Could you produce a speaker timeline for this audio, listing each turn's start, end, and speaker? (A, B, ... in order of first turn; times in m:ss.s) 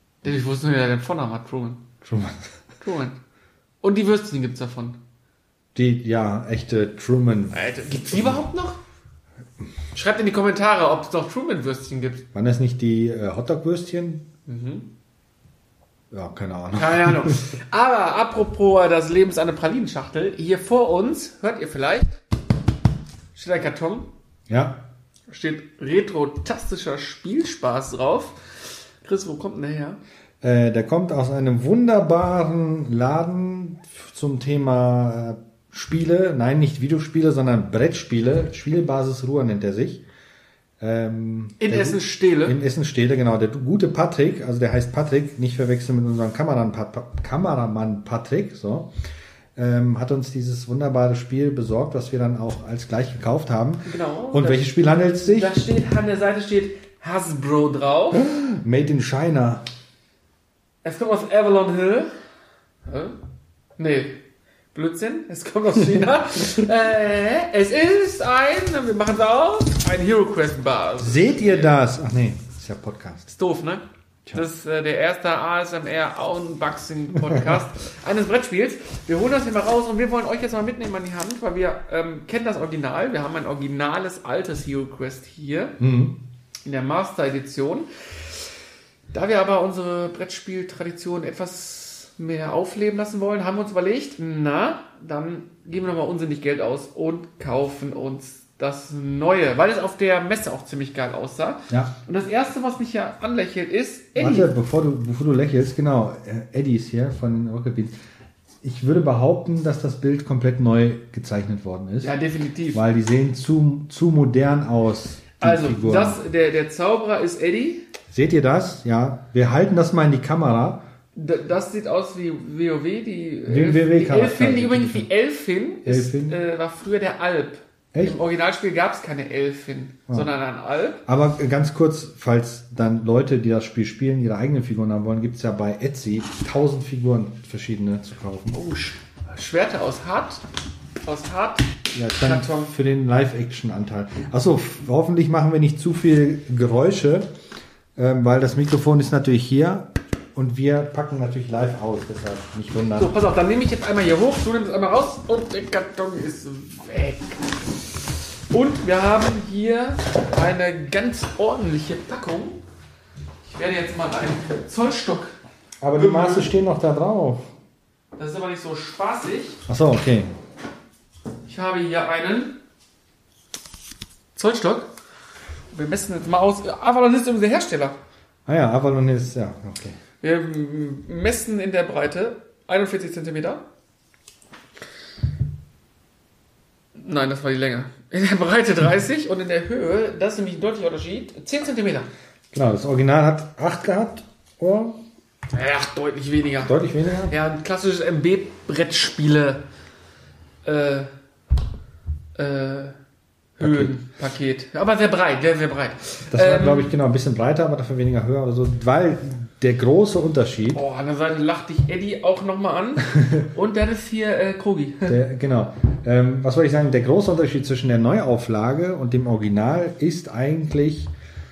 0:00.2-0:01.9 A
0:02.0-0:02.5 B
0:02.8-0:03.2 A
0:03.8-0:05.0 A
0:05.7-0:08.4 B
0:07.5-0:08.8 A
0:09.9-0:12.2 A
0:12.3-0:14.3 B
0:14.5-0:14.9 A
0:16.1-0:17.4 B
0:16.8-0:22.1 A
0:23.3-0:24.1 A
0:24.5-0:24.8 B
0:25.3-0:30.0 A
0:30.4-0:40.0 B
0:40.8-0:48.9 B
0:41.6-0:42.6 A
0:49.6-0:55.6 B
0:53.8-0:58.3 A
0:58.1-0:59.6 B
1:00.8-1:02.1 A
1:02.8-1:03.2 A
1:03.8-1:04.2 A
1:04.7-1:11.7 A
1:11.0-1:13.3 B
1:13.3-1:25.8 A
1:17.2-1:17.6 B
1:25.8-1:26.2 B
1:26.6-1:28.4 A
1:29.1-1:44.5 A
1:44.2-1:48.0 B
1:48.6-1:52.1 B
1:52.0-1:52.8 A
1:52.7-1:56.2 B
1:55.4-1:57.8 A
1:58.1-2:00.8 B
2:01.1-2:11.0 A
2:03.5-2:05.1 B
2:05.8-2:06.4 B
2:11.0-2:18.6 B
2:18.5-2:20.4 A
2:21.0-2:22.7 A
2:21.9-2:27.3 B
2:28.0-2:33.1 B
2:32.9-2:42.6 A
2:43.4-2:45.3 A
2:45.8-2:47.5 B
2:45.9-2:46.5 A
2:48.2-2:49.6 A
2:49.7-2:50.3 B
2:51.4-2:52.6 A
2:54.3-2:54.9 A
2:55.7-2:58.0 A
2:58.4-3:00.0 B
3:00.2-3:03.6 A
3:07.0-3:12.1 A
3:12.5-3:15.0 B
3:15.5-3:19.6 A
3:16.6-3:17.3 B
3:20.6-3:21.1 A
3:22.4-3:23.0 A
3:23.6-3:26.9 A
3:23.6-3:24.0 B
3:26.3-3:30.8 B
3:30.7-3:35.2 A
3:35.1-3:41.1 B